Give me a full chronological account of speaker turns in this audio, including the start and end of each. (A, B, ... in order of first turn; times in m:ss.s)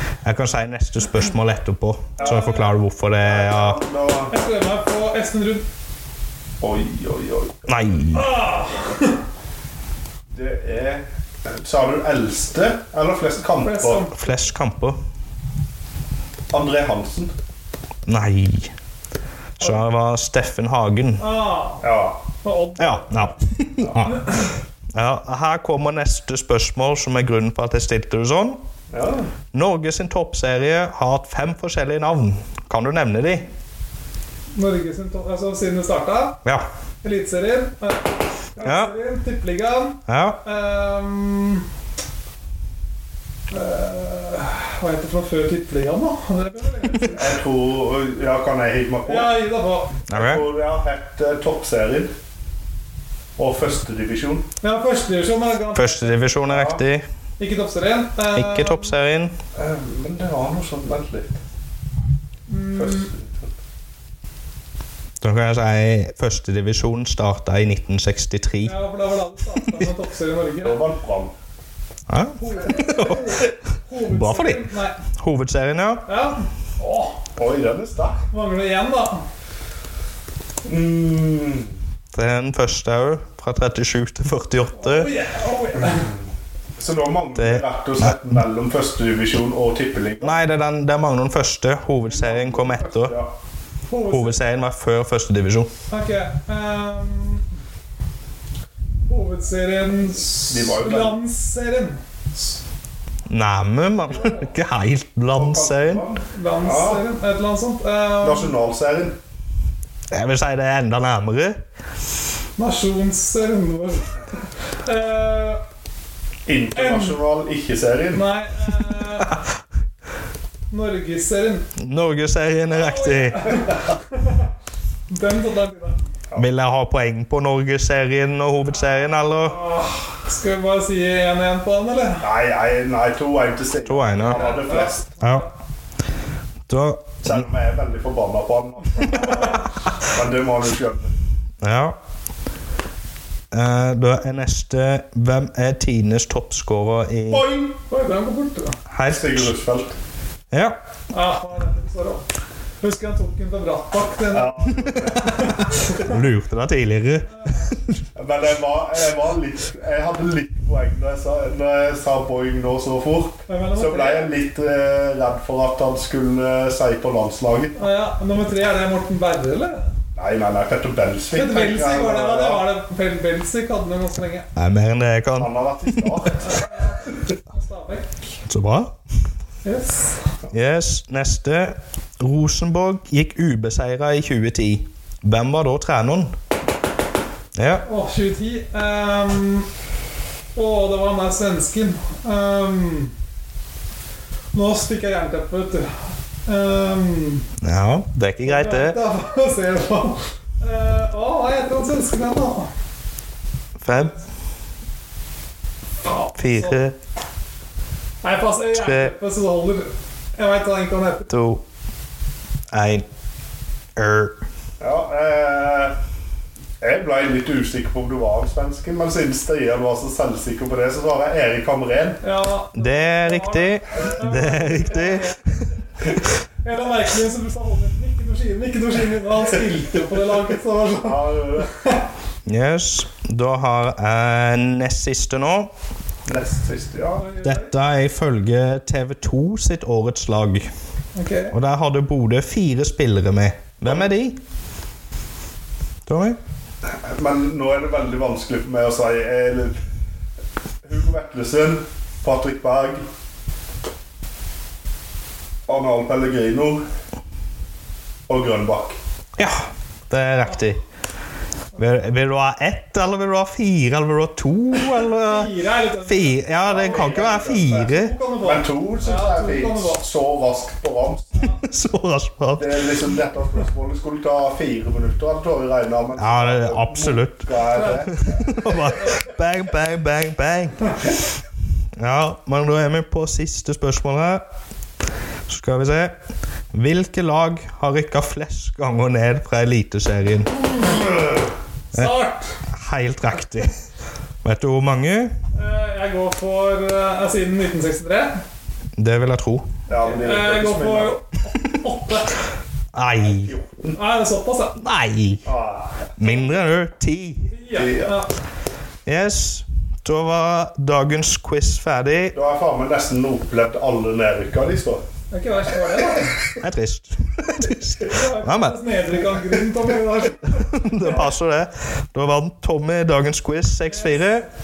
0:00.2-0:03.8 A
0:02.2-0:02.7 B
0:02.2-0:02.7 C
0:03.2-0:04.5 B
0:04.3-0:05.6 C
0:06.6-0:07.7 B
0:07.7-0:08.3 A
0:08.1-0:09.2 C
0:10.3-0:14.1 B
0:13.6-0:14.1 C
0:14.1-0:15.0 A
0:16.5-0:17.3 B
0:18.0-0:18.7 A
0:19.6-0:21.2 A
0:21.2-0:21.8 C
0:21.8-0:22.2 B
0:22.4-0:23.4 C
0:22.8-0:28.6 A
0:23.8-0:24.1 B
0:24.0-0:24.5 C
0:28.9-0:29.3 B
0:29.5-0:33.5 A
0:34.5-0:36.4 C
0:37.0-0:41.6 C
0:38.6-0:38.9 A
0:40.1-0:40.4 A
0:43.5-0:47.4 C
0:47.1-0:49.3 B
0:49.0-0:50.0 C
0:50.1-0:50.4 A
0:50.1-0:52.1 B
0:53.4-0:54.5 B
0:54.6-0:56.3 C
0:55.7-0:57.0 A
0:56.5-0:56.8 B
0:57.4-0:58.9 C
0:58.3-0:59.3 A
0:59.5-1:01.4 B
1:02.5-1:03.1 C
1:02.7-1:03.5 B
1:05.2-1:08.7 A
1:08.6-1:10.8 C
1:10.6-1:11.3 B
1:12.1-1:13.4 A
1:12.4-1:15.0 C
1:14.0-1:16.0 A
1:16.1-1:17.2 C
1:17.4-1:18.2 B
1:18.3-1:19.2 C
1:20.6-1:21.7 B
1:22.1-1:25.1 A
1:24.8-1:26.1 C
1:25.7-1:26.2 B
1:26.8-1:30.4 B
1:27.4-1:28.2 A
1:30.2-1:33.1 A
1:32.0-1:33.3 B
1:33.9-1:34.4 C
1:34.1-1:35.7 A
1:35.9-1:37.4 C
1:39.1-1:42.4 C
1:40.5-1:41.2 B
1:43.3-1:46.0 A
1:45.3-1:47.0 B
1:46.3-1:48.6 C
1:48.2-1:49.2 B
1:50.1-1:51.6 A
1:52.6-1:55.6 C
1:56.5-1:58.2 B
1:56.7-1:57.2 C
1:58.1-1:59.4 C
2:00.7-2:01.7 C
2:01.8-2:03.6 A
2:02.7-2:04.5 C
2:05.1-2:06.0 C
2:06.4-2:09.6 A
2:09.3-2:12.2 C
2:12.2-2:15.1 B
2:13.8-2:14.6 A
2:14.2-2:15.5 C
2:15.2-2:15.5 A
2:16.7-2:17.5 A
2:17.2-2:21.2 B
2:21.6-2:22.0 A
2:23.5-2:27.4 A
2:27.3-2:27.8 B
2:27.8-2:28.8 C
2:28.9-2:29.5 A
2:29.0-2:30.0 B
2:30.5-2:30.8 A
2:31.1-2:32.2 C
2:32.8-2:36.1 C
2:34.3-2:35.5 B
2:35.3-2:37.3 A
2:38.1-2:47.8 B
2:43.5-2:44.3 C
2:47.7-2:49.8 C
2:50.1-2:52.6 B
2:51.3-2:54.4 C
2:54.6-2:56.2 A
2:55.4-2:56.4 B
2:56.4-2:58.2 C
2:58.4-2:58.9 A
2:59.6-3:00.2 C
3:00.5-3:06.3 A
3:07.6-3:07.8 A
3:07.8-3:09.7 C
3:10.5-3:13.1 C
3:14.5-3:15.9 C
3:16.4-3:17.5 C
3:17.6-3:19.0 A
3:18.4-3:22.7 C
3:23.8-3:24.2 A
3:26.0-3:26.8 C
3:26.4-3:27.0 A
3:28.2-3:31.3 C
3:28.7-3:29.1 A
3:31.3-3:31.6 A
3:32.7-3:33.0 A
3:34.0-3:34.4 A
3:34.8-3:35.9 B
3:36.8-3:42.2 B
3:42.2-3:45.6 C
3:42.7-3:45.3 A
3:46.6-3:52.0 C
3:51.0-3:51.7 B
3:52.4-3:55.7 A
3:56.3-3:57.3 B
3:57.2-3:57.7 C
3:57.4-4:00.7 A
4:01.2-4:01.6 C
4:01.5-4:04.4 A
4:03.8-4:04.1 B
4:06.1-4:06.4 A
4:06.8-4:09.8 B
4:10.8-4:13.0 B
4:15.7-4:16.8 B
4:18.3-4:19.0 B
4:19.4-4:20.8 A
4:21.8-4:28.1 A
4:24.7-4:27.2 C
4:26.6-4:31.4 B
4:27.9-4:30.0 C
4:31.4-4:32.8 A
4:32.6-4:38.2 B
4:36.2-4:37.5 A
4:37.7-4:38.4 C
4:38.1-4:40.8 A
4:42.0-4:44.4 A
4:45.5-4:46.1 A
4:46.7-4:50.6 A
4:51.9-4:52.6 C
4:52.7-4:53.7 A
4:54.4-4:55.3 A
4:55.5-4:58.4 C
4:59.0-4:59.6 A
4:59.9-5:01.2 B
5:00.0-5:02.3 C
5:02.9-5:03.5 A
5:03.2-5:04.0 B
5:03.9-5:04.8 C
5:04.8-5:05.4 A
5:05.4-5:05.9 B
5:06.2-5:07.5 A
5:07.5-5:08.3 C
5:07.7-5:08.2 B
5:09.0-5:12.4 A
5:12.3-5:15.0 B
5:15.3-5:16.3 C
5:16.6-5:18.8 A
5:18.0-5:21.2 C
5:20.5-5:24.4 A
5:23.9-5:24.4 C